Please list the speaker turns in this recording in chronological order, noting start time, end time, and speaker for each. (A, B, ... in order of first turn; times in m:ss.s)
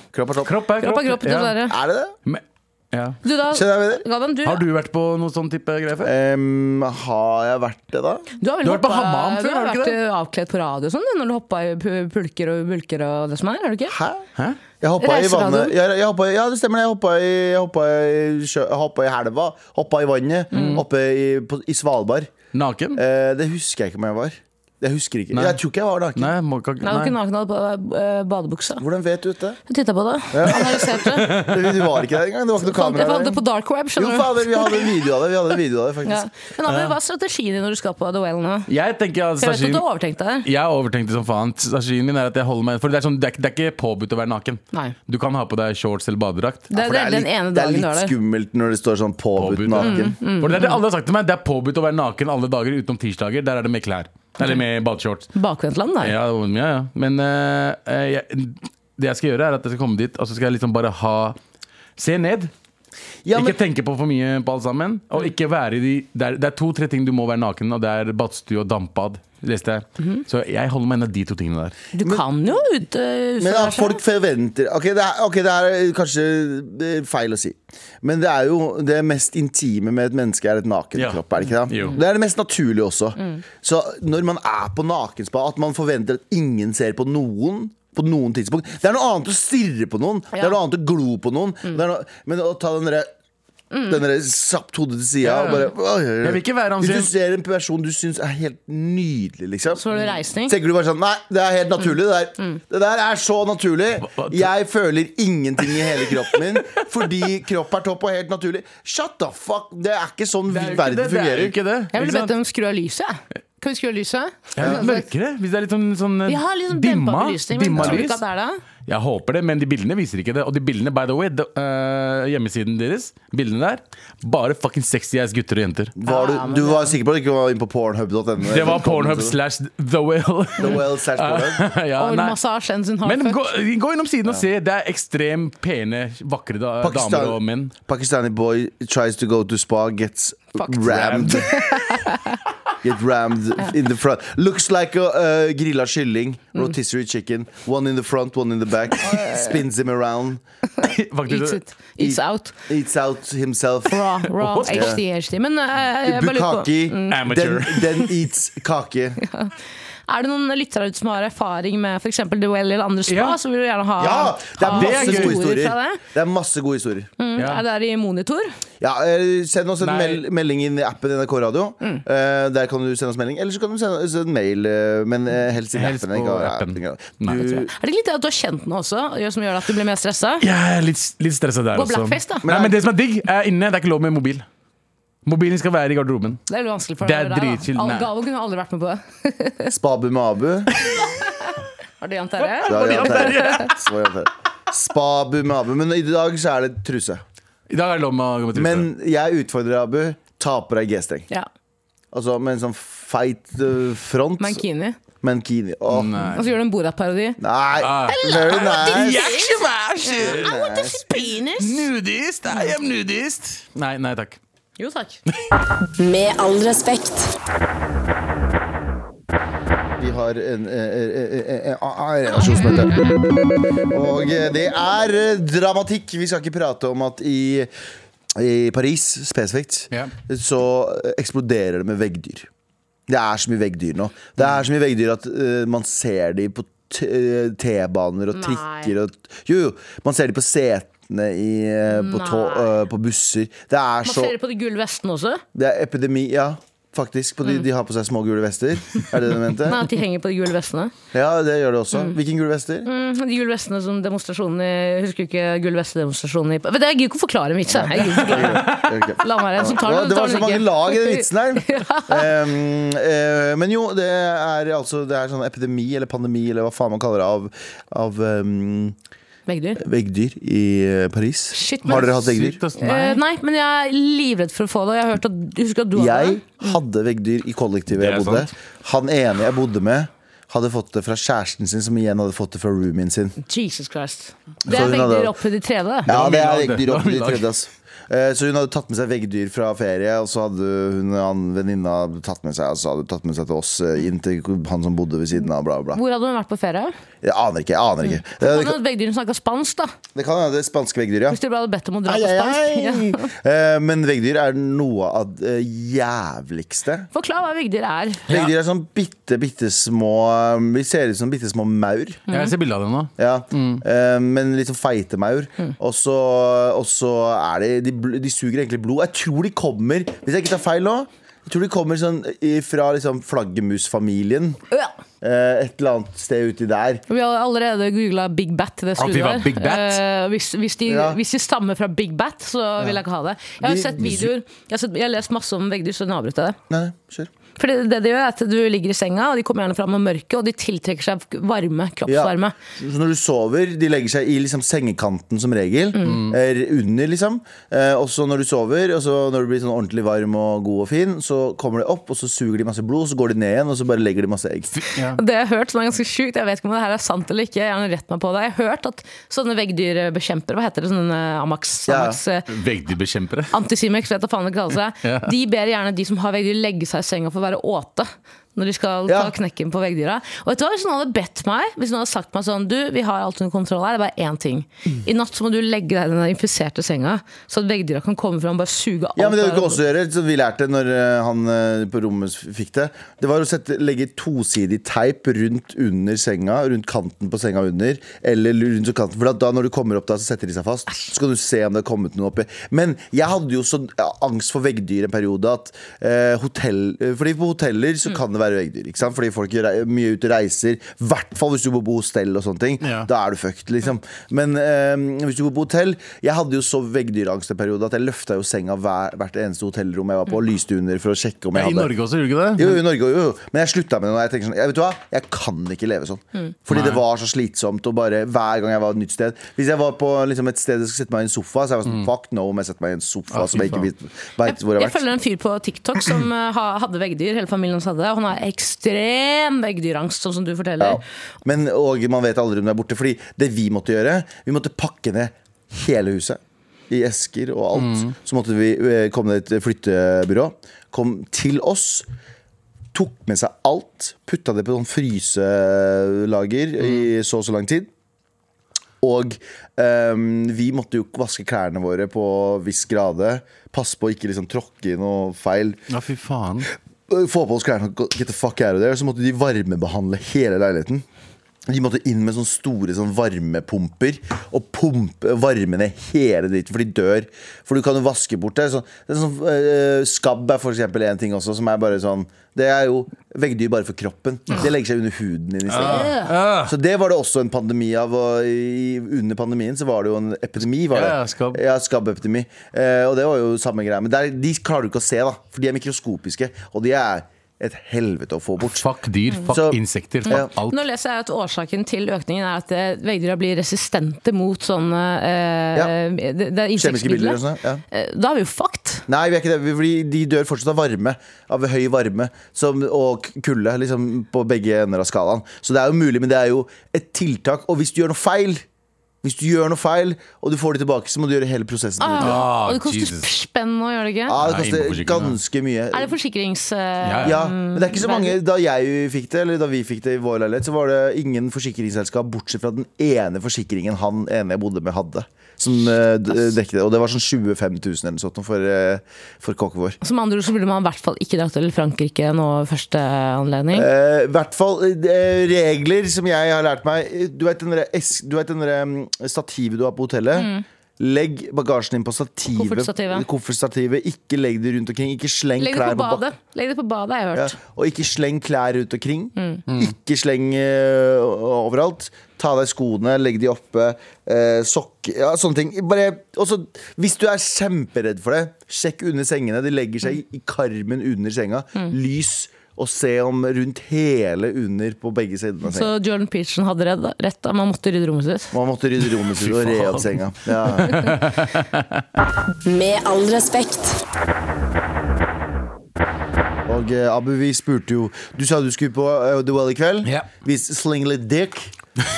0:00.1-0:00.6 A
0:00.4-0:01.5 B
0:00.8-0:01.8 C
0:01.6-0:02.1 A
0:02.2-0:03.2 B
0:03.2-0:04.6 C
0:03.5-0:04.0 A
0:04.4-0:06.1 B
0:06.0-0:08.2 A
0:08.4-0:14.0 C
0:08.6-0:10.0 B
0:13.9-0:14.2 A
0:14.8-0:22.3 A
0:15.0-0:15.7 C
0:20.5-0:20.8 C
0:20.5-0:20.8 B
0:22.5-0:23.0 B
0:22.9-0:26.3 A
0:25.3-0:25.6 B
0:26.2-0:27.1 B
0:26.8-0:28.8 C
0:28.8-0:29.6 A
0:29.7-0:31.4 C
0:30.3-0:33.4 A
0:32.6-0:34.9 C
0:34.0-0:36.3 A
0:36.0-0:38.7 C
0:36.6-0:36.9 B
0:38.7-0:39.8 B
0:39.4-0:40.4 C
0:40.4-0:46.7 B
0:46.7-0:48.1 C
0:46.7-0:50.1 A
0:49.4-0:55.3 B
0:49.8-0:50.8 C
0:55.3-0:56.1 C
0:56.0-1:01.4 B
1:02.0-1:02.5 B
1:03.2-1:03.6 A
1:03.3-1:11.8 B
1:11.9-1:14.0 C
1:13.4-1:33.1 A
1:20.9-1:22.0 B
1:33.7-1:34.0 C
1:33.9-1:51.6 A
1:35.2-1:35.6 B
1:36.2-1:37.1 B
1:39.7-1:40.6 C
1:44.1-1:44.5 B
1:50.5-1:52.3 B
1:51.9-1:55.1 C
1:54.6-1:58.2 B
1:56.3-1:58.6 C
1:57.8-1:58.0 A
1:58.9-2:05.9 B
2:06.0-2:09.4 A
2:06.0-2:06.9 C
2:08.5-2:12.4 B
2:10.6-2:11.7 A
2:12.0-2:13.5 C
2:13.0-2:17.7 B
2:16.8-2:21.6 A
2:20.8-2:21.6 B
2:21.4-2:22.4 C
2:22.8-2:30.4 A
2:29.0-2:29.4 C
2:30.8-2:32.5 C
2:30.8-2:31.6 B
2:32.0-2:34.1 A
2:33.9-2:37.2 C
2:34.4-2:35.0 B
2:34.7-2:35.0 A
2:36.0-2:39.2 A
2:37.1-2:38.1 B
2:39.2-2:39.5 C
2:40.1-2:46.0 C
2:43.1-2:43.4 B
2:44.0-2:47.1 A
2:44.6-2:45.4 B
2:47.2-2:48.5 C
2:47.4-2:47.6 B
2:48.8-2:57.7 A
2:49.8-2:50.2 B
2:55.7-2:57.5 B
2:57.3-3:00.4 C
3:00.4-3:04.4 B
3:01.7-3:02.5 C
3:02.4-3:02.8 A
3:05.2-3:06.4 B
3:06.5-3:09.7 C
3:07.0-3:08.1 B
3:09.7-3:10.7 A
3:11.0-3:13.7 C
3:12.4-3:13.9 B
3:12.6-3:17.2 A
3:17.7-3:18.9 B
3:18.5-3:21.3 A
3:22.1-3:24.6 A
3:24.4-3:25.0 C
3:25.2-3:26.2 A
3:25.9-3:26.5 B
3:26.3-3:27.4 C
3:27.4-3:29.3 A
3:27.8-3:30.5 B
3:28.1-3:31.9 C
3:30.2-3:31.0 A
3:31.2-3:34.4 B
3:34.8-3:35.2 C
3:36.0-3:37.3 D
3:40.0-3:43.2 A
3:43.9-3:47.7 A
3:48.3-3:52.5 A
3:53.1-4:04.3 A
3:58.3-3:58.9 C
4:01.9-4:02.7 C
4:04.0-4:05.4 C
4:05.5-4:09.8 A
4:09.6-4:10.9 C
4:11.1-4:12.9 A
4:12.8-4:22.4 C
4:17.7-4:29.0 A
4:18.2-4:18.9 B
4:29.5-4:29.8 C
4:29.8-4:32.6 A
4:31.5-4:32.1 C
4:31.9-4:33.2 B
4:32.8-4:36.8 C
4:35.9-4:43.4 A
4:38.0-4:38.5 B
4:43.4-4:46.1 C
4:44.6-4:45.3 A
4:46.1-4:47.5 B
4:46.1-4:56.0 A
4:55.9-4:56.9 C
4:57.2-4:58.8 A
4:58.0-4:59.9 C
5:00.1-5:01.4 A
5:01.3-5:03.3 C
5:02.0-5:07.1 A
5:07.1-5:08.3 C
5:08.3-5:12.2 A
5:12.3-5:13.8 B
5:13.2-5:24.6 A
5:25.2-5:27.0 A
5:27.1-5:36.6 C
5:29.0-5:30.0 B
5:30.8-5:31.2 A
5:33.6-5:34.3 A
5:36.7-5:37.3 A
5:37.6-5:42.5 C
5:42.1-5:54.8 A
5:46.0-5:46.2 C
5:46.0-5:46.4 B
5:54.8-5:55.2 B
5:55.1-6:02.5 C
6:01.9-6:02.2 A
6:02.5-6:03.5 B
6:03.5-6:19.8 C
6:05.0-6:05.3 B
6:09.1-6:09.3 A
6:19.2-6:51.9 A
6:42.8-6:43.1 B
6:51.5-6:52.8 B
6:52.6-7:05.0 A
6:56.7-6:57.0 B
7:03.3-7:03.9 B
7:04.4-7:11.0 C
7:10.8-7:22.1 A
7:17.8-7:18.1 B
7:22.9-7:27.9 A
7:29.0-7:35.8 A
7:35.9-7:36.7 B
7:37.1-7:41.0 A
7:41.7-8:08.9 A
7:55.7-7:56.7 B
7:55.8-7:56.3 C
8:00.9-8:01.6 B
8:08.8-8:10.8 B
8:09.4-8:10.5 A
8:10.3-8:17.4 C
8:16.8-8:17.8 A
8:17.9-8:19.0 C
8:19.1-8:28.6 A
8:29.2-8:32.4 A
8:32.0-8:34.4 C
8:32.2-8:33.3 B
8:34.3-8:36.1 A
8:34.4-8:35.4 B
8:35.9-8:38.4 C
8:37.0-8:37.4 B
8:37.2-8:50.0 A
8:50.0-8:53.9 C
8:53.7-9:06.2 A
9:00.3-9:00.6 C
9:02.5-9:03.2 C
9:05.6-9:07.5 C
9:07.3-9:25.9 A
9:09.4-9:09.6 C
9:25.6-9:28.5 C
9:28.5-9:31.2 A
9:29.4-9:30.1 B
9:30.8-9:32.0 B
9:32.6-9:34.0 D
9:36.7-9:41.7 A